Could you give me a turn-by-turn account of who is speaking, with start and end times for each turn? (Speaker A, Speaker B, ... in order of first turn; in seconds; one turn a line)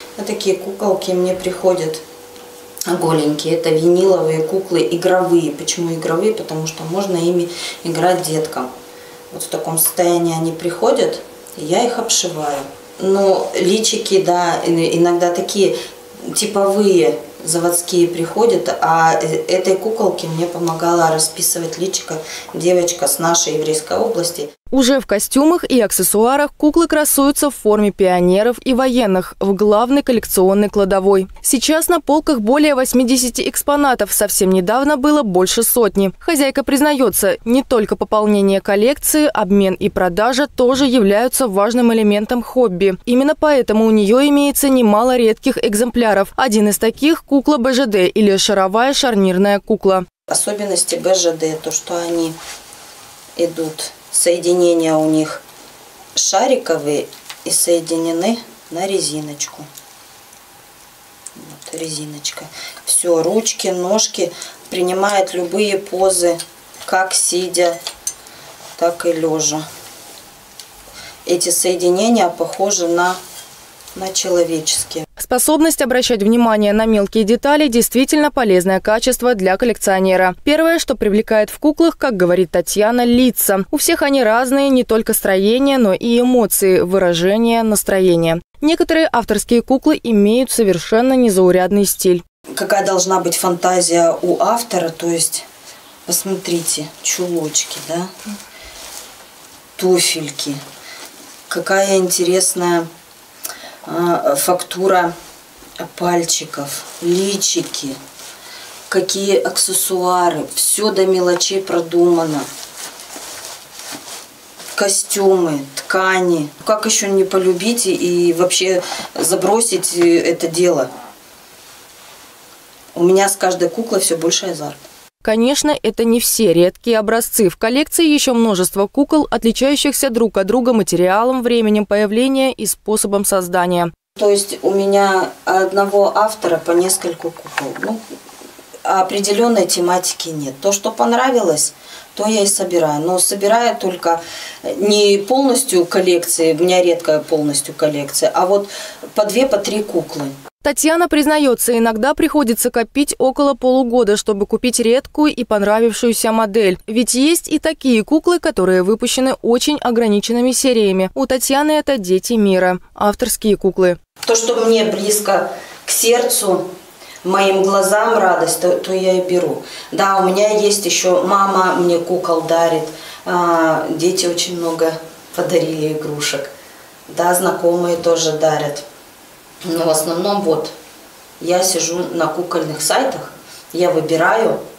Speaker A: 0.2-2.0
Speaker A: 2.9-8.7
Speaker A: 9.3-24.5
Speaker B: 24.7-50.1
Speaker A: 50.3-52.4
Speaker A: 53.4-55.4
Speaker A: 56.1-59.7
Speaker A: 61.3-67.8
Speaker A: 68.8-69.7
Speaker A: 71.2-73.2
Speaker A: 73.9-75.1
Speaker B: 75.2-92.2
Speaker A: 92.5-95.5
Speaker A: 96.1-98.1
Speaker A: 99.8-100.6
Speaker A: 101.5-102.9
Speaker A: 103.8-105.1
Speaker A: 105.8-108.0
Speaker A: 108.9-112.5
Speaker A: 114.7-120.9
Speaker A: 122.9-124.8
Speaker B: 125.2-133.9
Speaker A: 134.2-138.0
Speaker A: 138.8-150.4
Speaker B: 150.6-164.0
Speaker A: 164.2-166.7
Speaker A: 167.2-176.5
Speaker A: 177.1-178.8
Speaker A: 179.6-180.7
Speaker A: 181.4-184.6